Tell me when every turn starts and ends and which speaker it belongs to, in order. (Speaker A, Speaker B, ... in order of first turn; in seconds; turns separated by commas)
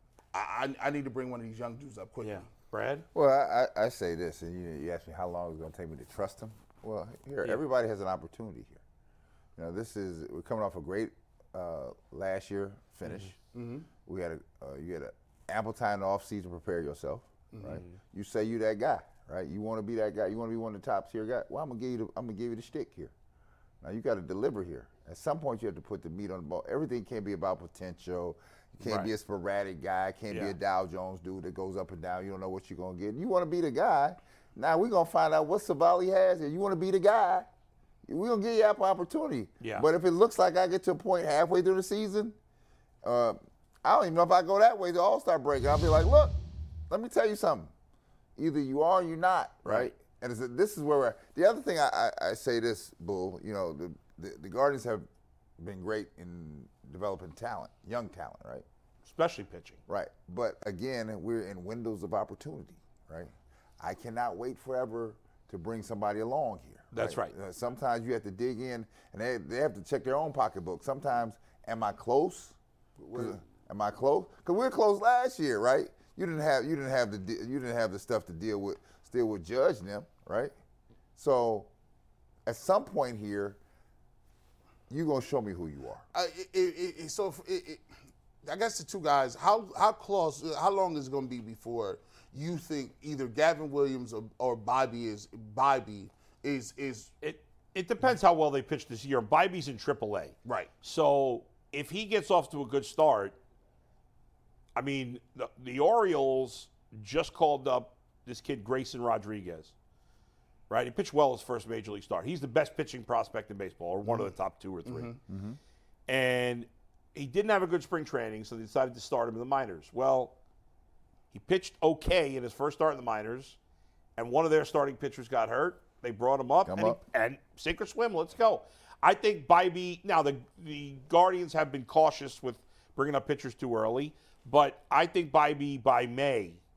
Speaker A: 0.3-2.4, Speaker B: 2.2-3.0, Speaker C: 3.1-8.8, Speaker C: 9.6-13.3, Speaker A: 13.5-13.9, Speaker C: 14.0-23.1, Speaker A: 17.5-17.8, Speaker C: 23.8-37.5, Speaker B: 28.8-29.1, Speaker C: 38.0-42.3, Speaker B: 39.6-39.9, Speaker C: 43.0-46.4, Speaker C: 46.9-47.7, Speaker C: 48.4-55.1, Speaker B: 49.6-49.9, Speaker C: 55.6-58.6, Speaker B: 59.0-59.8, Speaker C: 59.9-72.5, Speaker B: 66.9-67.3, Speaker A: 73.0-73.4, Speaker C: 73.1-80.5, Speaker C: 81.2-81.7, Speaker C: 82.5-83.6, Speaker C: 84.9-86.0, Speaker A: 86.1-87.8, Speaker A: 88.4-97.1, Speaker B: 97.2-103.3, Speaker A: 100.5-100.7, Speaker B: 104.7-109.7, Speaker B: 110.7-115.1, Speaker A: 114.0-114.3, Speaker A: 114.8-115.2, Speaker C: 115.3-115.6, Speaker B: 116.1-120.3, Speaker B: 121.3-123.6, Speaker B: 124.2-136.6, Speaker C: 126.7-127.0